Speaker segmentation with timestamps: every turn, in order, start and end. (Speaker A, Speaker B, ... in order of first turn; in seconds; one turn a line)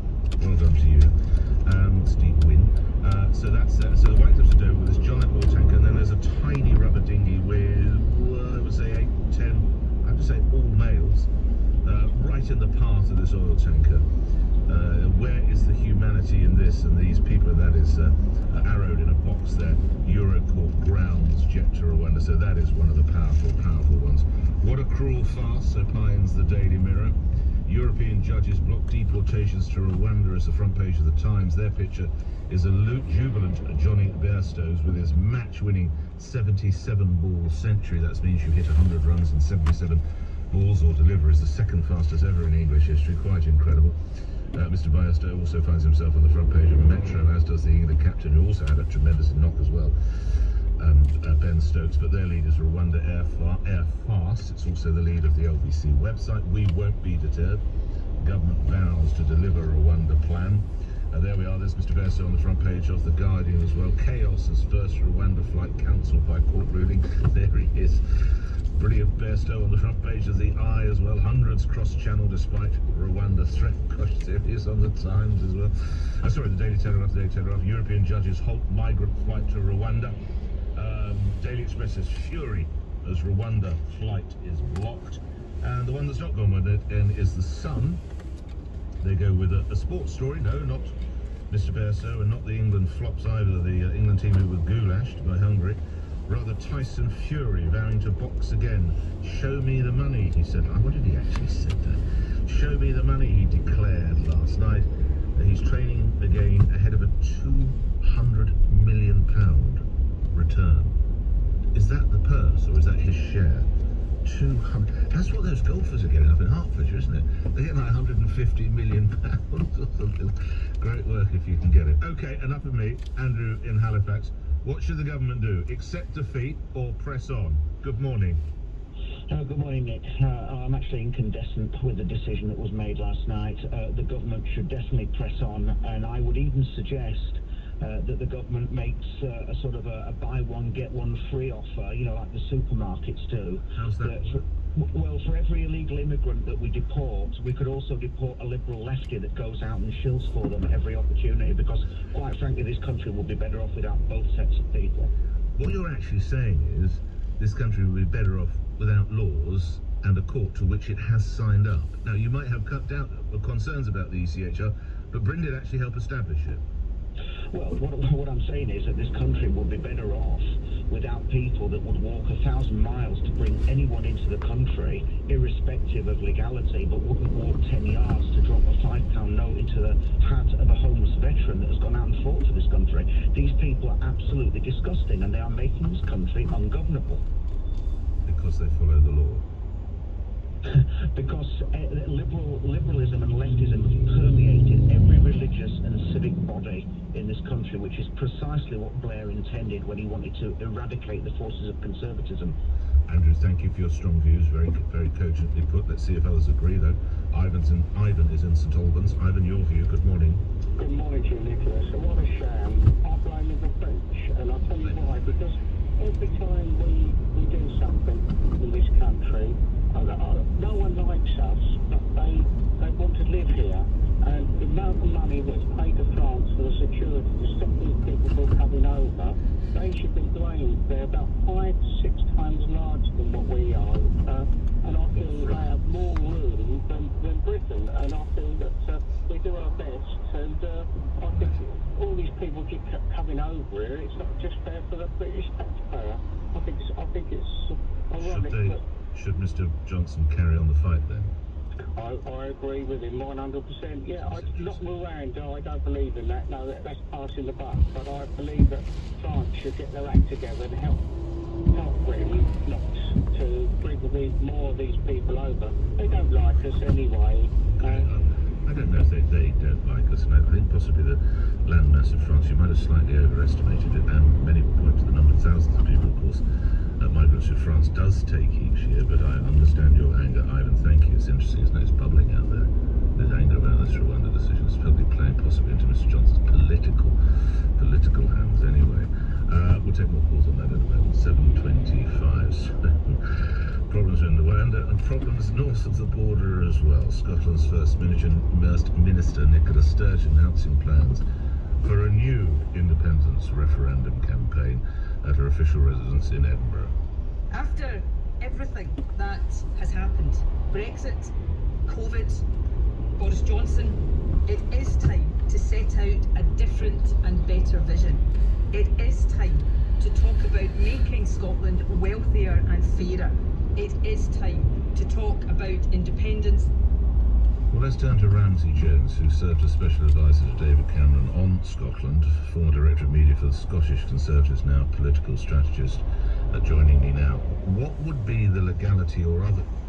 Speaker A: 0.4-11.3
Speaker A: 11.8-14.1
Speaker A: 14.7-44.0
Speaker A: 44.5-50.0
Speaker A: 50.8-57.6
Speaker A: 58.2-68.0
Speaker A: 68.7-80.2
Speaker A: 80.8-88.0
Speaker A: 89.0-91.0
Speaker A: 91.5-111.0
Speaker A: 111.7-113.7
Speaker A: 114.2-128.4
Speaker B: 129.3-155.1
Speaker A: 143.7-144.4
Speaker A: 155.6-166.6
Speaker B: 167.5-187.2
Speaker A: 188.2-189.4
Speaker B: 190.7-202.6
Speaker A: 203.1-210.4
Speaker C: 210.8-248.8
Speaker A: 214.8-215.5
Speaker A: 235.1-235.7
Speaker A: 241.3-241.6
Speaker A: 248.2-251.3
Speaker C: 252.0-261.0
Speaker A: 254.2-255.0
Speaker C: 261.7-268.1
Speaker A: 267.6-276.4
Speaker A: 277.0-287.2
Speaker A: 287.8-293.4
Speaker A: 293.9-301.2
Speaker A: 301.8-306.9
Speaker D: 307.5-311.3
Speaker D: 311.9-312.4
Speaker D: 313.2-326.7
Speaker A: 327.7-339.7